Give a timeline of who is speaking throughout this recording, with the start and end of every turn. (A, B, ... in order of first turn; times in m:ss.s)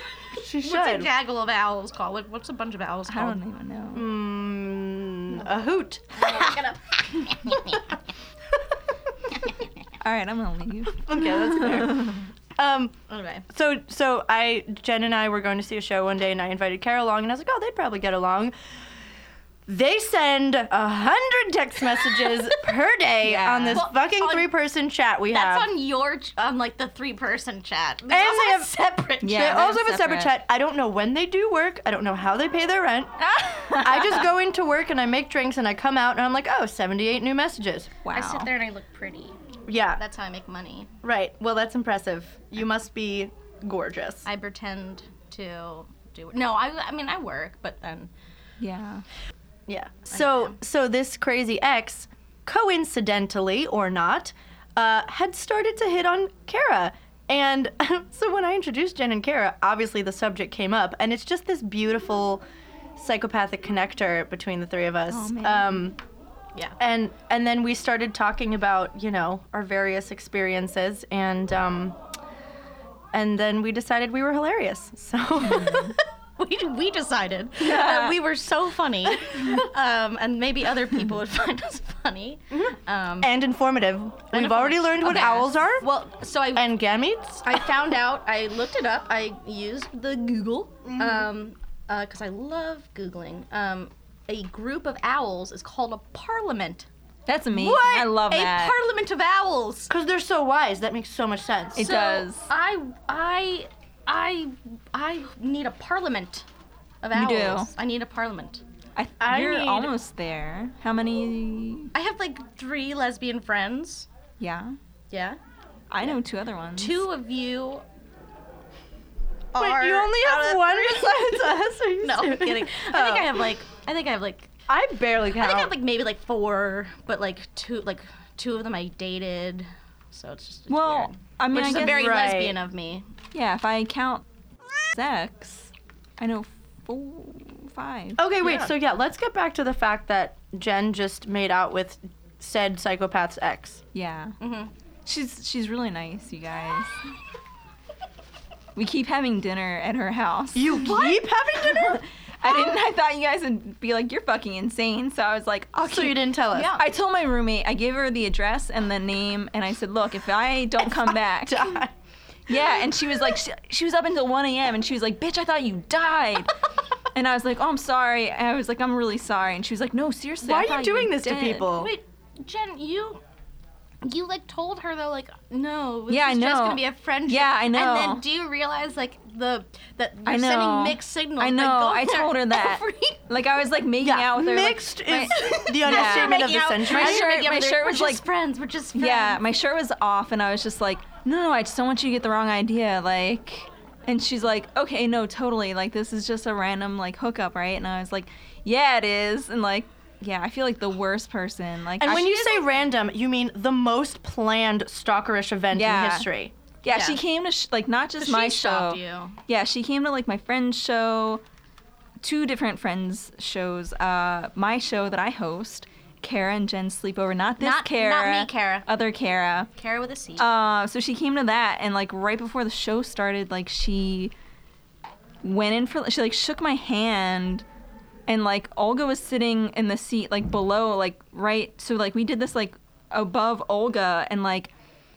0:00.4-0:01.1 A
0:00.6-0:03.4 B
0:03.1-0:04.1 C
0:03.9-0:06.6 A
0:06.2-0:07.9 B
0:10.0-0:12.2 C
0:11.0-0:13.0 A
0:13.1-0:13.5 B
0:13.5-0:18.5 A
0:19.7-0:25.7 A
0:23.2-0:23.8 C
0:23.7-0:24.5 B
0:25.3-0:29.7 B
0:28.1-0:38.0 A
0:29.2-0:30.4 C
0:33.2-0:34.3 C
0:38.0-0:38.5 C
0:38.1-0:40.9 B
0:39.7-0:40.0 A
0:41.0-0:44.2 A
0:44.2-0:48.1 B
0:48.6-0:49.0 C
0:49.7-1:02.4 A
0:50.1-0:50.6 B
1:03.0-1:06.0 A
1:05.1-1:05.7 C
1:05.2-1:05.6 B
1:06.8-1:12.0 A
1:13.1-1:16.0 A
1:15.4-1:15.9 C
1:16.4-1:23.3 B
1:17.6-1:18.2 C
1:23.2-1:25.9 A
1:24.3-1:26.7 B
1:25.0-1:25.6 C
1:26.5-1:27.6 A
1:27.4-1:36.9 B
1:30.8-1:31.3 A
1:37.3-1:38.8 C
1:37.5-1:39.9 B
1:39.9-1:41.8 A
1:41.8-1:46.5 B
1:41.8-1:42.5 C
1:47.0-1:48.6 B
1:47.1-1:47.7 C
1:49.0-1:51.9 C
1:49.2-1:49.9 A
1:51.9-1:54.1 B
1:54.4-1:54.8 C
1:55.1-1:55.4 B
1:55.9-1:57.0 C
1:56.8-1:57.8 B
1:59.5-2:04.5 B
1:59.6-2:03.5 A
2:04.7-2:05.7 A
2:05.4-2:13.1 B
2:10.7-2:12.2 C
2:11.6-2:12.6 A
2:13.3-2:14.2 C
2:14.9-2:18.2 C
2:18.2-2:23.8 A
2:18.4-2:18.7 B
2:23.9-2:24.4 C
2:24.4-2:24.7 B
2:25.1-2:27.1 C
2:28.8-2:41.8 C
2:30.5-2:32.0 A
2:35.8-2:36.8 A
2:36.5-2:36.8 B
2:41.4-2:41.9 A
2:42.5-2:46.5 C
2:47.1-2:51.7 C
2:50.4-2:51.9 A
2:51.7-2:53.2 B
2:54.0-3:03.2 B
2:56.1-2:58.2 C
3:00.3-3:08.2 C
3:04.0-3:07.3 A
3:05.3-3:09.4 B
3:09.0-3:22.6 C
3:22.0-3:26.5 A
3:25.7-3:26.3 C
3:26.8-3:31.4 C
3:26.9-3:27.2 B
3:28.2-3:29.4 B
3:32.2-3:39.7 C
3:37.6-3:38.9 B
3:39.8-3:40.4 B
3:40.4-3:44.3 C
3:45.4-3:47.6 C
3:48.3-3:54.7 C